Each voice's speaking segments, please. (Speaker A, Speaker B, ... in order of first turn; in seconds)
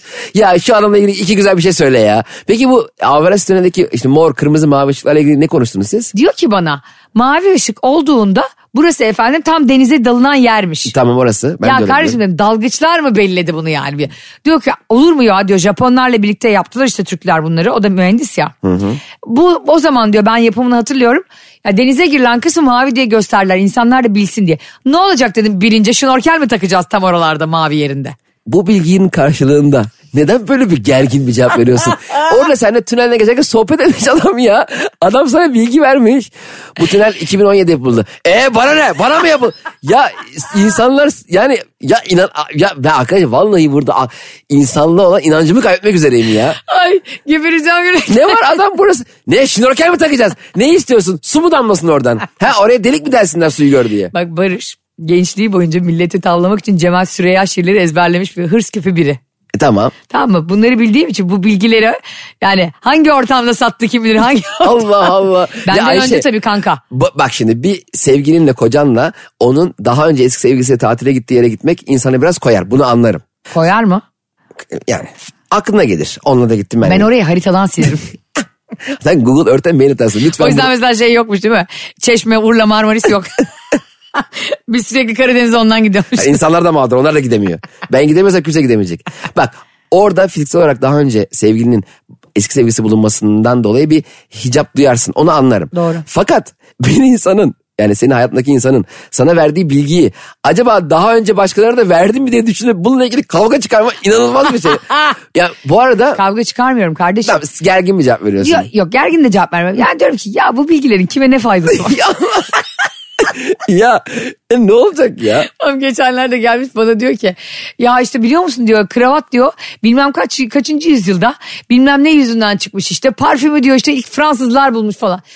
Speaker A: 0.3-6.1, 10.9-12.2, 18.6-19.0, 28.4-46.6, 48.1-54.1, 59.5-59.9, 64.6-66.3, 66.9-73.2, 74.7-77.1, 79.0-80.7, 86.2-106.2, 107.2-108.7, 111.7-112.6, 113.2-115.5
Speaker B: 6.1-10.9, 11.6-18.5, 19.2-28.1, 46.6-48.4, 54.1-59.2, 60.1-64.9, 65.6-66.8, 73.5-74.0, 76.8-78.1, 80.4-83.4, 84.1-86.4, 95.7-96.0, 106.1-107.4, 108.4-112.0, 115.5-125.2